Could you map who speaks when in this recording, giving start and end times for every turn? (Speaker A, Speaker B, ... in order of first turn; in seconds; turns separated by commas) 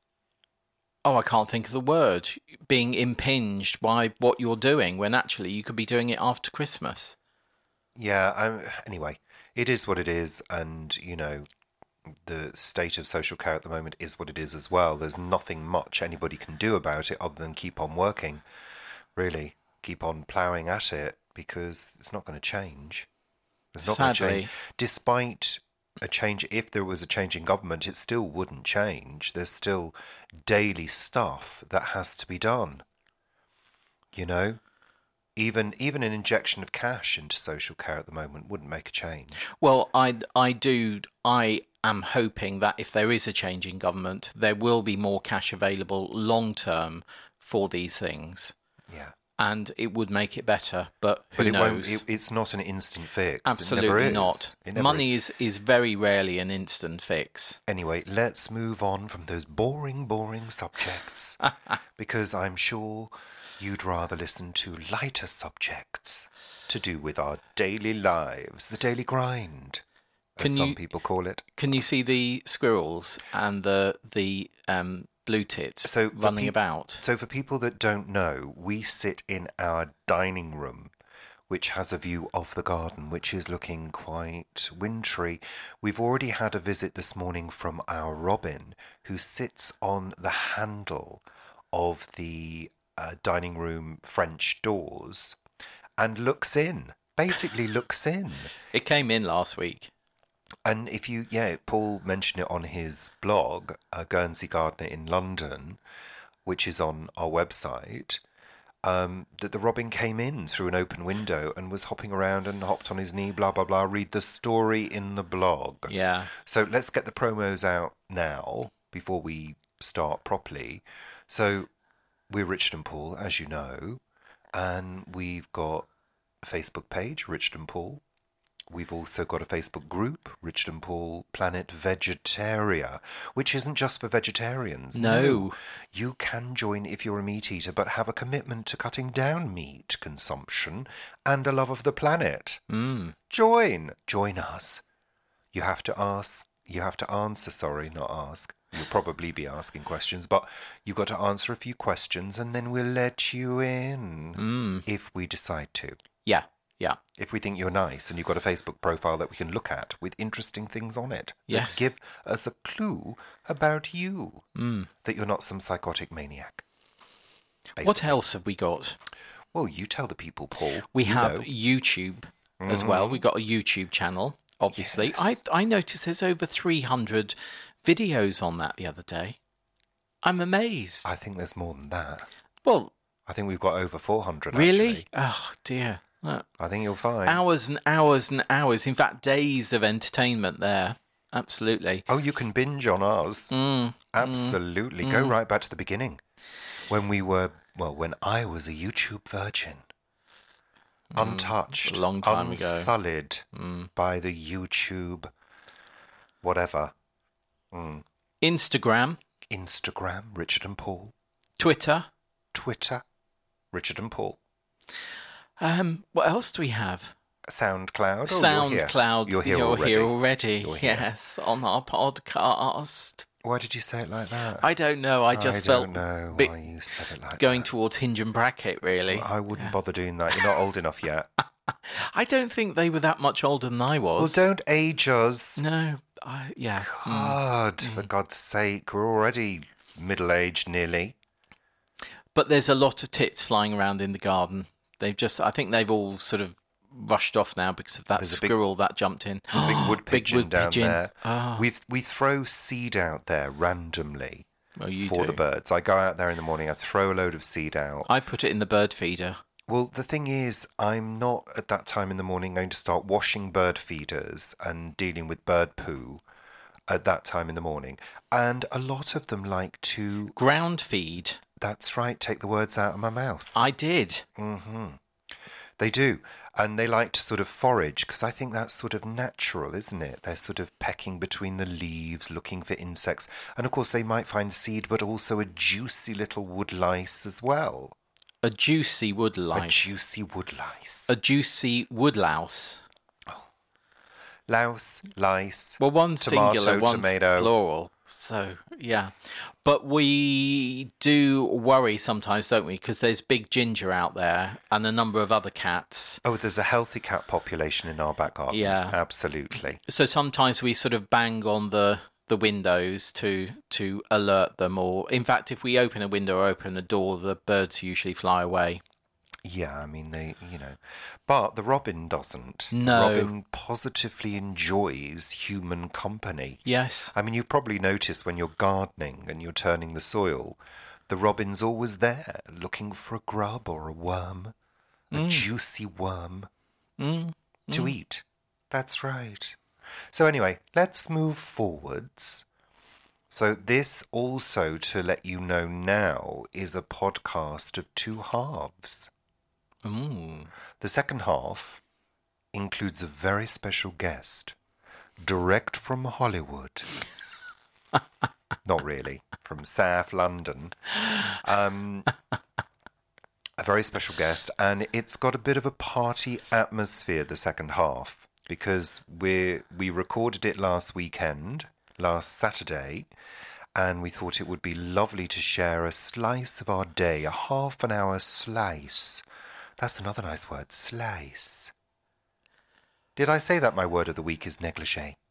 Speaker A: 1.0-7.2, Speaker B: 8.0-11.5, Speaker B: 12.2-18.4, Speaker B: 19.1-23.1, Speaker B: 23.7-32.8, Speaker A: 23.8-24.5, Speaker B: 34.1-34.6, Speaker B: 35.4-39.4, Speaker A: 39.5-48.5, Speaker B: 48.9-49.1, Speaker A: 49.4-52.0, Speaker B: 51.4-55.1, Speaker A: 53.5-57.6, Speaker B: 57.7-61.4, Speaker B: 62.0-69.8, Speaker B: 70.4-71.5, Speaker A: 70.4-70.8, Speaker A: 71.6-77.0, Speaker B: 75.8-80.9, Speaker B: 81.5-95.4, Speaker B: 96.0-98.5, Speaker A: 98.7-99.9, Speaker B: 100.6-105.8, Speaker B: 106.4-108.2, Speaker B: 108.8-121.7, Speaker A: 115.9-116.3, Speaker B: 122.3-124.0, Speaker B: 124.5-125.9, Speaker B: 126.4-128.0, Speaker B: 128.7-142.6, Speaker A: 134.9-135.6, Speaker A: 142.7-143.1, Speaker B: 143.3-144.8, Speaker B: 145.5-156.0, Speaker A: 154.3-154.8, Speaker A: 156.2-157.0, Speaker B: 157.2-164.4, Speaker A: 161.5-161.9, Speaker A: 164.6-164.9, Speaker B: 165.0-166.6, Speaker B: 167.8-168.2, Speaker A: 167.8-169.0, Speaker B: 169.5-171.5, Speaker A: 170.9-179.4, Speaker B: 172.6-173.2, Speaker B: 174.7-175.4, Speaker A: 180.2-181.1, Speaker B: 181.0-182.3, Speaker A: 182.6-182.9, Speaker B: 183.3-185.0, Speaker A: 184.5-186.5, Speaker B: 186.6-187.4, Speaker A: 187.2-192.1, Speaker B: 192.1-193.6, Speaker A: 193.5-195.3, Speaker B: 194.1-196.2, Speaker B: 196.9-199.8, Speaker A: 201.1-202.9, Speaker B: 201.1-205.3, Speaker A: 203.5-203.9, Speaker B: 206.4-206.9, Speaker B: 207.7-208.0, Speaker A: 208.4-209.2, Speaker B: 209.5-211.1, Speaker A: 211.6-212.1, Speaker B: 212.5-213.0, Speaker B: 213.7-214.4, Speaker A: 215.6-217.1, Speaker B: 217.5-221.1, Speaker A: 218.3-223.2, Speaker B: 223.4-224.7, Speaker A: 224.6-226.5, Speaker B: 225.3-227.7, Speaker A: 227.3-229.8, Speaker B: 229.1-231.3, Speaker A: 231.7-234.4, Speaker B: 234.2-235.6, Speaker A: 235.6-238.1, Speaker B: 236.8-241.2, Speaker A: 242.3-251.6, Speaker B: 248.2-248.5, Speaker B: 249.5-254.4, Speaker A: 254.8-255.4, Speaker B: 255.0-258.1, Speaker A: 258.1-259.4, Speaker B: 259.7-266.2, Speaker B: 266.9-270.4, Speaker A: 270.4-271.4, Speaker B: 271.6-273.6, Speaker A: 273.6-274.2, Speaker B: 274.4-275.0, Speaker B: 275.8-287.9, Speaker A: 288.4-289.9, Speaker B: 289.5-291.1, Speaker A: 291.1-292.8, Speaker B: 294.5-297.5, Speaker A: 295.8-306.2, Speaker B: 306.2-309.8, Speaker A: 308.5-308.9, Speaker A: 309.8-318.8, Speaker B: 319.4-326.6, Speaker A: 322.7-323.3, Speaker A: 326.6-327.1, Speaker B: 327.1-334.5, Speaker A: 335.1-335.5, Speaker B: 335.1-336.5, Speaker A: 337.0-337.9, Speaker B: 337.7-339.6, Speaker B: 340.1-342.4, Speaker B: 343.3-349.1, Speaker A: 349.8-350.5, Speaker B: 350.8-351.8, Speaker B: 352.5-354.6, Speaker B: 355.2-356.9, Speaker B: 358.6-362.1, Speaker B: 363.6-373.1, Speaker B: 373.7-379.2, Speaker B: 379.8-381.7, Speaker B: 383.1-385.2